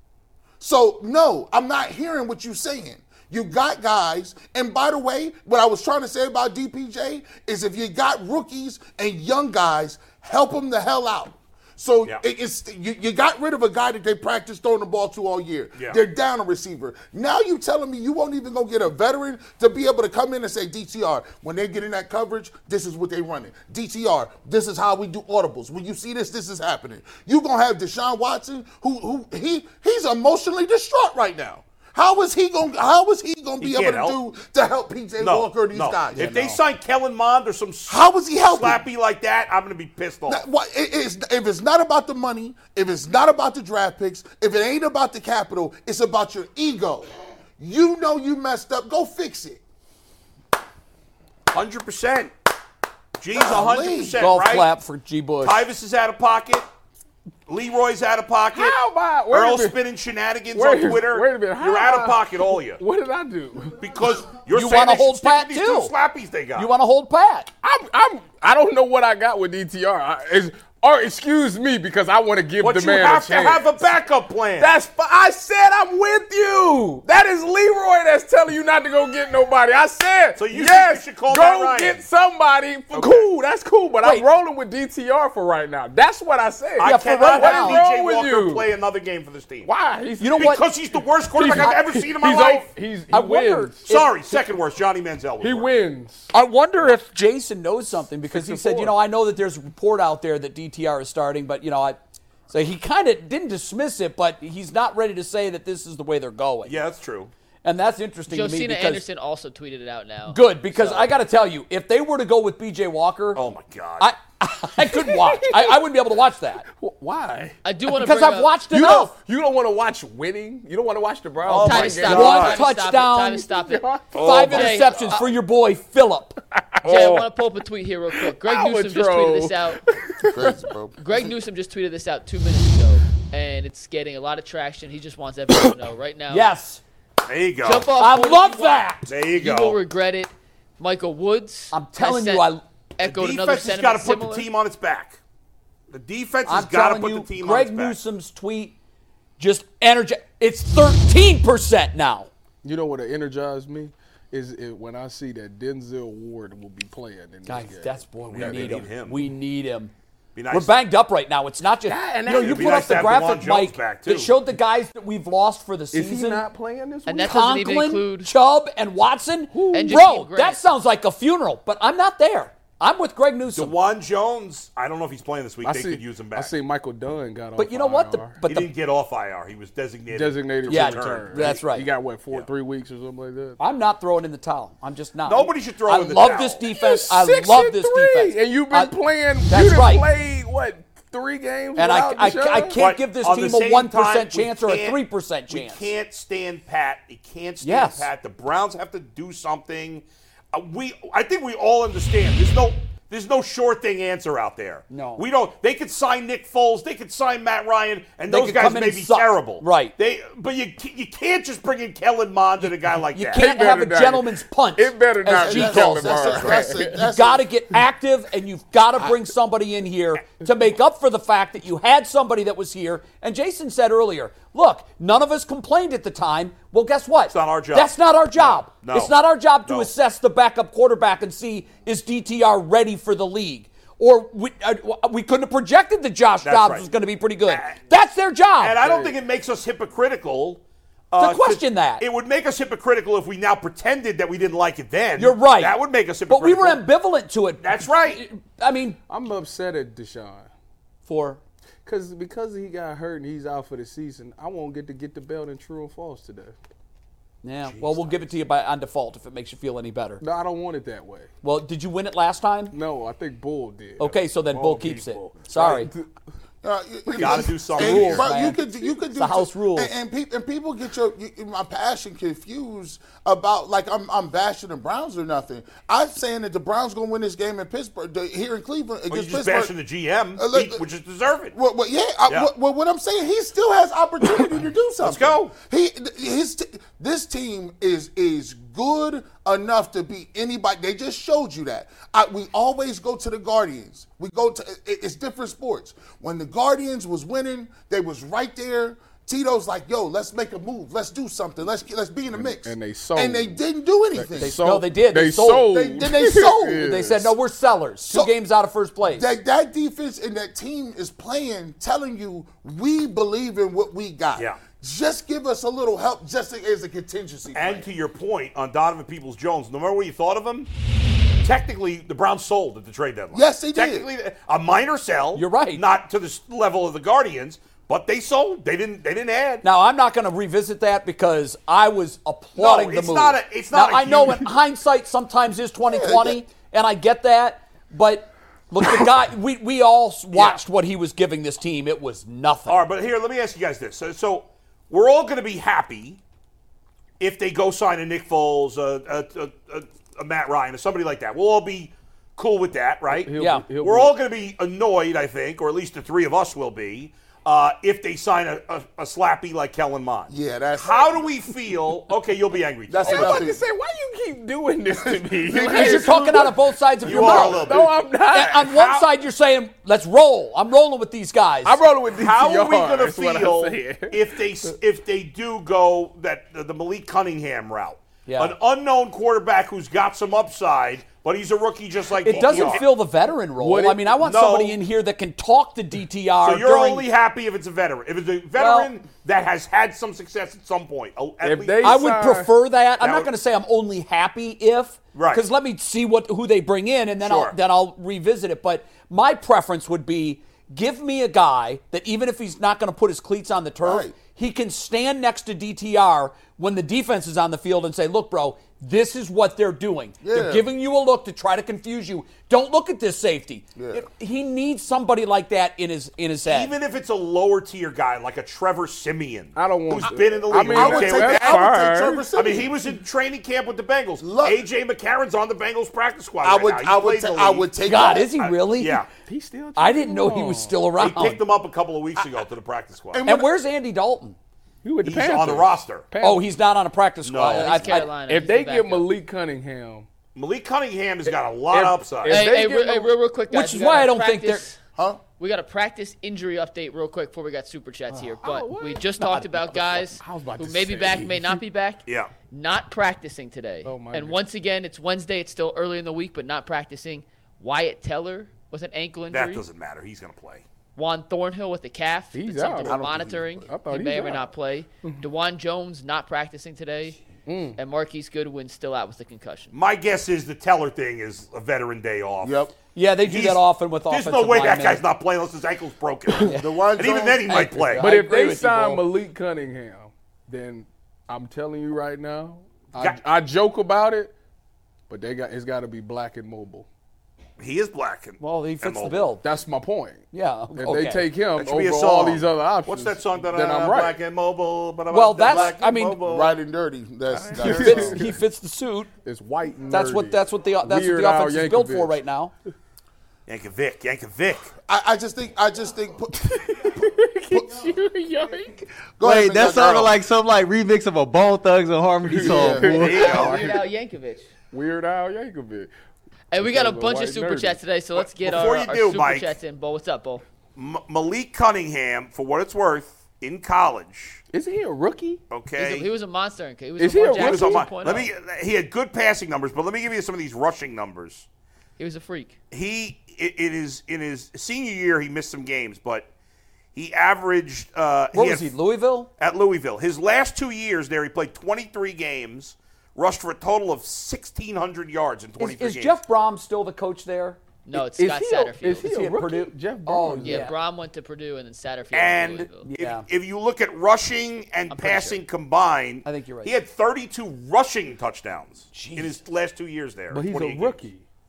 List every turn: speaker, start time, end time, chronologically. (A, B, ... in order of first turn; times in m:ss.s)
0:00.6-0:36.4 A
0:33.6-0:34.2 B
0:35.2-0:40.4 B
0:36.2-0:36.6 C
0:37.9-0:38.8 A
0:40.3-0:47.1 A
0:47.6-0:49.6 A
0:51.5-0:52.3 B
0:53.2-0:54.7 B
0:53.3-0:54.2 A
0:54.2-0:55.6 C
0:55.4-0:56.7 B
0:57.5-1:02.8 B
0:58.5-0:59.8 D
1:00.5-1:03.8 D
1:03.8-1:06.7 B
1:04.5-1:05.9 C
1:06.6-1:07.5 C
1:07.6-1:13.6 D
1:12.6-1:14.7 B
1:14.6-1:28.6 D
1:20.4-1:22.0 B
1:22.9-1:23.3 B
1:26.8-1:29.7 B
1:26.8-1:27.8 C
1:29.6-1:30.6 D
1:30.2-1:30.6 C
1:30.4-1:32.7 B
1:31.3-1:33.9 D
1:33.1-1:34.4 C
1:33.9-1:35.7 B
1:35.4-1:36.3 D
1:36.3-1:42.0 C
1:38.3-1:38.9 D
1:42.5-1:46.8 C
1:46.6-1:47.3 B
1:47.6-1:49.0 C
1:48.3-1:51.1 E
1:50.3-1:53.4 C
1:53.3-1:54.1 B
1:54.0-1:56.6 C
1:54.9-1:55.8 D
1:56.8-1:57.6 D
1:57.6-1:58.5 E
1:58.0-1:59.1 C
1:58.7-2:02.5 D
2:01.4-2:02.6 B
2:01.6-2:05.2 E
2:01.9-2:03.4 C
2:03.4-2:04.8 D
2:04.2-2:04.5 B
2:04.2-2:06.4 C
2:06.8-2:07.2 D
2:06.8-2:09.8 E
2:08.1-2:10.6 D
2:10.3-2:10.9 A
2:11.0-2:16.5 E
2:16.3-2:16.8 C
2:17.2-2:17.9 B
2:17.6-2:24.5 E
2:18.0-2:19.1 C
2:19.1-2:19.8 B
2:21.7-2:22.6 C
2:23.0-2:25.2 B
2:25.9-2:28.0 B
2:26.4-2:28.7 C
2:29.4-2:32.3 C
2:32.6-2:38.9 D
2:37.4-2:39.9 C
2:38.3-2:39.2 B
2:40.3-2:40.7 B
2:40.5-2:46.4 C
2:41.8-2:43.2 D
2:42.4-2:44.3 B
2:45.9-2:47.4 D
2:47.1-2:48.3 E
2:47.2-2:53.7 C
2:49.5-2:50.0 D
2:49.7-2:50.6 E
2:53.5-2:56.5 B
2:55.6-2:58.4 D
2:57.6-2:58.7 C
2:58.4-3:01.6 B
3:00.1-3:03.6 D
3:00.7-3:01.9 C
3:03.6-3:10.0 C
3:05.2-3:06.6 B
3:06.7-3:12.8 D
3:11.8-3:15.9 C
3:12.8-3:15.0 B
3:15.5-3:33.4 B
3:17.6-3:18.1 C
3:24.9-3:25.2 C
3:28.3-3:29.9 C
3:33.1-3:58.8 C
3:33.3-3:37.0 D
3:35.4-3:37.5 A
3:47.3-3:49.9 B
3:56.4-3:56.8 B
3:57.4-3:57.8 B
3:58.6-4:06.8 B
3:58.8-3:59.1 D
4:01.2-4:02.0 C
4:05.2-4:05.8 C
4:06.3-4:09.0 C
4:07.6-4:08.2 B
4:09.1-4:10.5 D
4:11.0-4:11.4 C
4:11.8-4:16.5 D
4:17.4-4:20.2 C
4:17.6-4:18.3 B
4:20.2-4:21.3 D
4:21.4-4:22.7 C
4:22.7-4:26.1 D
4:24.0-4:25.9 C
4:26.6-4:39.7 A
4:27.2-4:27.5 D
4:27.2-4:28.3 B
4:27.8-4:28.6 C
4:29.1-4:29.9 C
4:39.1-4:41.5 B
4:40.4-4:40.8 A
4:41.5-5:04.6 A
4:45.0-4:45.5 B
5:02.3-5:03.6 D
5:04.1-5:07.3 D
5:04.4-5:09.3 C
5:05.7-5:06.8 A
5:09.0-5:17.9 A
5:17.5-5:20.7 B
5:21.4-5:29.6 B
5:23.3-5:24.1 A
5:25.3-5:25.8 C
5:29.6-5:42.8 C
5:32.6-5:34.5 B
5:35.8-5:36.4 A
5:40.3-5:40.6 B
5:42.7-5:46.2 B
5:47.2-6:03.4 B
5:53.2-5:54.1 D
5:53.4-5:53.6 C
6:00.3-6:01.3 A
6:02.9-6:03.6 A
6:03.0-6:08.7 D
6:05.4-6:06.5 A
6:05.6-6:07.7 C
6:07.0-6:08.0 B
6:08.3-6:11.8 C
6:08.6-6:09.1 B
6:11.6-6:14.2 D
6:12.1-6:22.8 B
6:18.2-6:18.5 C
6:22.2-6:27.0 C
6:22.4-6:23.0 D
6:23.6-6:24.1 D
6:24.2-6:24.8 B
6:26.4-6:32.0 B
6:28.6-6:28.9 C
6:31.4-6:32.5 D
6:31.8-6:56.7 C
6:33.0-6:33.3 B
6:35.1-6:35.4 B
6:37.2-6:37.5 B
6:43.8-6:44.1 A
6:50.2-6:50.6 A
6:53.8-6:54.0 A
6:56.5-7:01.7 B
6:59.6-7:02.3 D
7:00.7-7:02.7 A
7:02.3-7:09.1 B
7:04.2-7:04.6 A
7:06.4-7:08.3 A
7:07.8-7:09.0 C
7:09.2-7:10.7 D
7:09.8-7:11.4 C
7:11.0-7:13.2 B
7:13.1-7:13.5 A
7:13.2-7:14.4 C
7:14.8-7:16.5 D
7:15.0-7:16.1 B
7:16.2-7:18.1 C
7:17.2-7:18.0 B
7:17.5-7:19.1 E
7:18.1-7:20.1 D
7:20.3-7:22.4 B
7:21.3-7:23.1 D
7:22.3-7:24.8 E
7:23.5-7:24.7 C
7:25.0-7:25.2 A
7:25.4-7:39.6 E
7:28.1-7:31.6 D
7:32.0-7:32.3 B
7:33.8-7:34.4 D
7:39.3-7:40.6 B
7:41.0-7:47.2 E
7:42.3-7:43.0 D
7:42.8-7:43.7 A
7:43.7-7:44.5 D
7:47.4-7:47.8 D
7:47.8-7:49.7 E
7:49.7-7:52.6 B
7:52.4-7:52.7 A
7:52.9-7:55.0 C
7:53.2-7:58.1 B
7:56.5-7:57.6 A
7:57.5-7:59.1 C
7:58.0-8:04.3 D
8:05.1-8:06.9 D
8:07.6-8:09.3 B
8:08.4-8:09.4 C
8:09.4-8:14.2 D
8:10.3-8:11.3 C
8:11.5-8:16.5 B
8:15.1-8:16.2 C
8:16.2-8:18.3 A
8:17.3-8:17.8 B
8:17.6-8:18.3 D
8:17.7-8:19.1 C
8:19.2-8:22.2 D
8:19.9-8:22.5 C
8:23.5-8:24.7 B
8:24.9-8:27.0 A
8:26.5-8:28.9 D
8:27.5-8:27.8 A
8:29.2-8:30.2 A
8:29.2-8:33.3 F
8:32.3-8:33.8 D
8:32.9-8:33.7 B
8:32.9-8:34.5 E
8:34.7-8:35.9 D
8:36.5-8:40.4 E
8:36.6-8:37.8 D
8:38.2-8:39.6 B
8:40.8-8:44.4 B
8:44.5-8:45.4 D
8:45.5-8:46.1 B
8:45.8-8:48.3 E
8:47.0-8:47.9 D
8:47.4-8:51.4 B
8:52.0-8:52.6 E
8:52.7-8:56.3 B
8:56.9-8:58.7 B
8:58.3-8:59.3 C
8:59.4-9:06.2 B
9:05.6-9:07.6 C
9:07.8-9:09.2 E
9:07.9-9:10.7 D
9:09.0-9:10.7 C
9:10.4-9:12.9 E
9:12.1-9:21.0 B
9:12.8-9:13.2 C
9:14.9-9:15.4 E
9:16.2-9:16.7 C
9:18.9-9:19.4 C
9:20.3-9:21.2 D